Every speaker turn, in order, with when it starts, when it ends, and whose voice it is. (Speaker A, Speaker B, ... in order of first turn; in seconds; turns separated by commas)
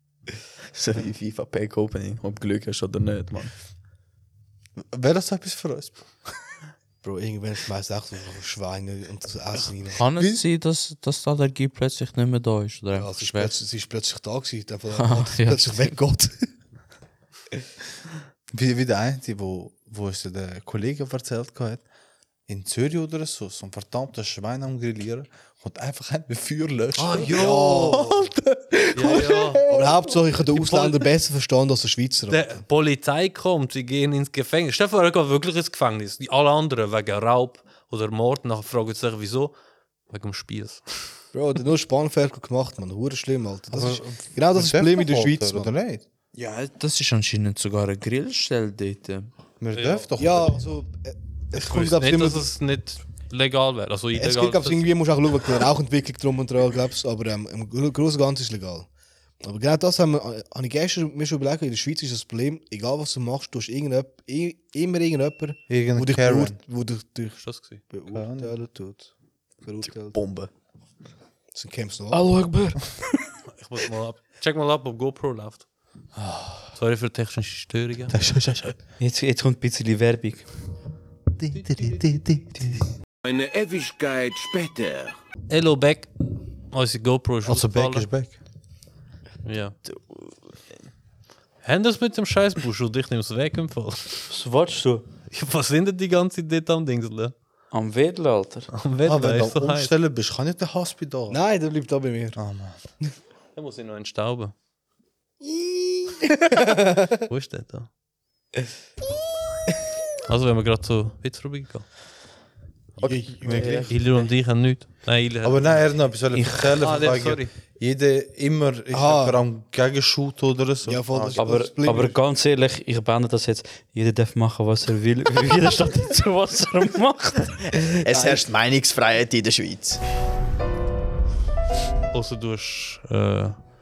Speaker A: 0.7-3.5, Speaker B: 4.8-6.2, Speaker C: 7.0-10.0, Speaker D: 9.9-13.6, Speaker C: 12.9-16.5, Speaker D: 14.9-15.9, Speaker B: 18.5-21.8, Speaker B: 22.5-30.2, Speaker E: 27.0-28.1, Speaker C: 27.3-28.1, Speaker E: 28.9-29.6, Speaker C: 29.1-32.6, Speaker E: 30.5-31.1, Speaker E: 32.3-39.5, Speaker E: 40.1-41.1, Speaker C: 41.3-45.7, Speaker B: 43.7-46.0, Speaker D: 46.3-49.3, Speaker B: 49.6-50.6, Speaker E: 49.7-50.1, Speaker C: 50.2-52.4, Speaker E: 51.5-54.9, Speaker C: 54.1-58.9, Speaker C: 59.4-70.2, Speaker B: 65.7-66.6, Speaker E: 67.4-67.8, Speaker B: 68.1-68.5, Speaker A: 69.8-70.5, Speaker C: 71.5-72.2, Speaker F: 72.1-73.3, Speaker E: 73.5-75.7, Speaker B: 76.1-76.7, Speaker E: 76.7-78.2, Speaker B: 78.1-78.8, Speaker F: 79.0-80.5, Speaker B: 81.3-82.8, Speaker E: 81.5-81.9, Speaker G: 83.2-85.2, Speaker E: 85.5-86.1, Speaker E: 86.7-88.1, Speaker B: 87.4-88.4, Speaker E: 89.4-89.7, Speaker A: 89.9-90.4, Speaker E: 91.6-94.3, Speaker F: 94.3-95.0, Speaker E: 95.3-97.3, Speaker F: 97.7-98.7, Speaker E: 98.7-99.9, Speaker B: 99.0-101.4, Speaker C: 101.3-102.4, Speaker B: 102.3-102.8, Speaker E: 103.5-104.5, Speaker C: 106.3-107.2, Speaker E: 107.2-107.9, Speaker E: 110.3-111.9, Speaker C: 113.0-114.0, Speaker B: 113.4-114.0, Speaker E: 113.9-115.8, Speaker B: 115.4-121.6, Speaker E: 116.8-117.5, Speaker C: 118.9-119.4, Speaker C: 120.8-122.2, Speaker F: 121.3-128.0, Speaker A: 128.0-130.0, Speaker C: 128.1-128.5, Speaker E: 132.1-133.6